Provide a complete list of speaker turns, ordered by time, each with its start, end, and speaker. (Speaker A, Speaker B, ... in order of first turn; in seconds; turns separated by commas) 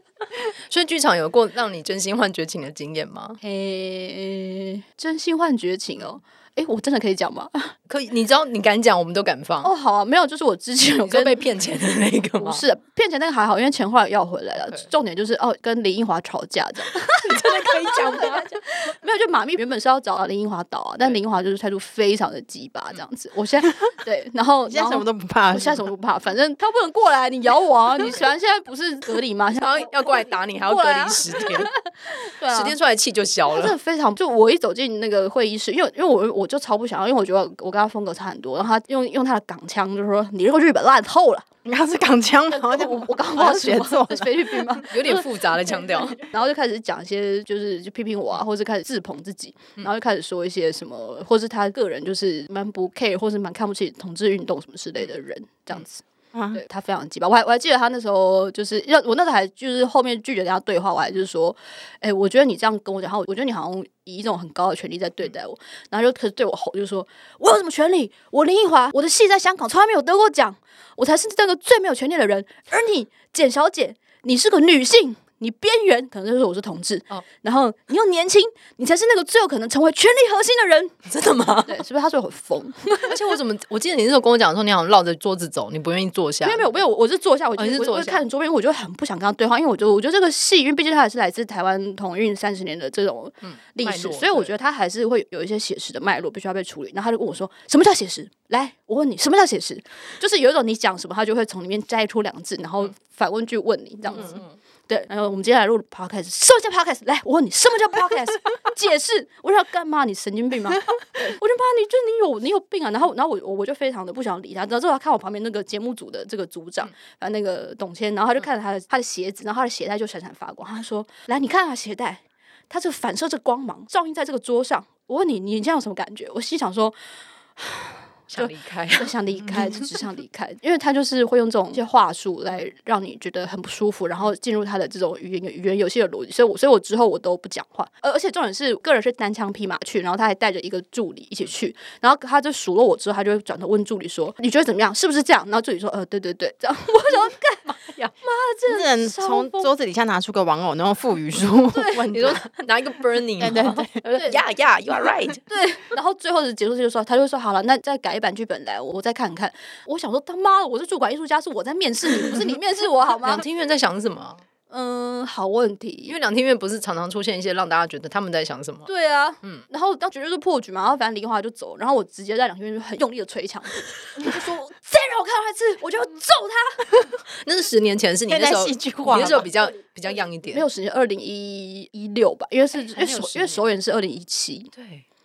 Speaker A: 0.7-3.4, Speaker B: 3.4-7.7, Speaker A: 7.9-9.7, Speaker B: 9.6-11.4, Speaker A: 11.1-12.6, Speaker B: 12.4-29.9, Speaker A: 14.6-14.9, Speaker A: 17.2-18.5, Speaker C: 24.7-25.8, Speaker A: 29.6-31.7, Speaker B: 30.6-32.7, Speaker A: 32.5-33.8, Speaker B: 33.5-41.5, Speaker C: 41.6-44.8, Speaker B: 42.5-81.0, Speaker A: 44.8-46.2, Speaker C: 56.3-56.6, Speaker A: 81.1-81.8, Speaker B: 81.7-83.2, Speaker A: 83.0-86.7, Speaker B: 86.4-127.0, Speaker A: 87.6-88.2, Speaker A: 93.4-94.5, Speaker A: 104.1-104.5, Speaker B: 127.6-147.6, Speaker A: 128.3-129.1, Speaker A: 147.7-148.1, Speaker B: 148.2-149.7, Speaker C: 148.7-152.5, Speaker B: 151.7-152.0, Speaker A: 152.1-155.4, Speaker C: 153.4-153.9, Speaker B: 154.1-154.4, Speaker B: 155.5-163.4, Speaker A: 163.2-164.4, Speaker B: 164.7-166.1, Speaker A: 166.1-168.9, Speaker B: 168.9-176.9, Speaker A: 177.3-180.6, Speaker C: 178.3-179.5, Speaker B: 180.5-184.7, Speaker A: 182.8-183.6, Speaker A: 184.7-185.0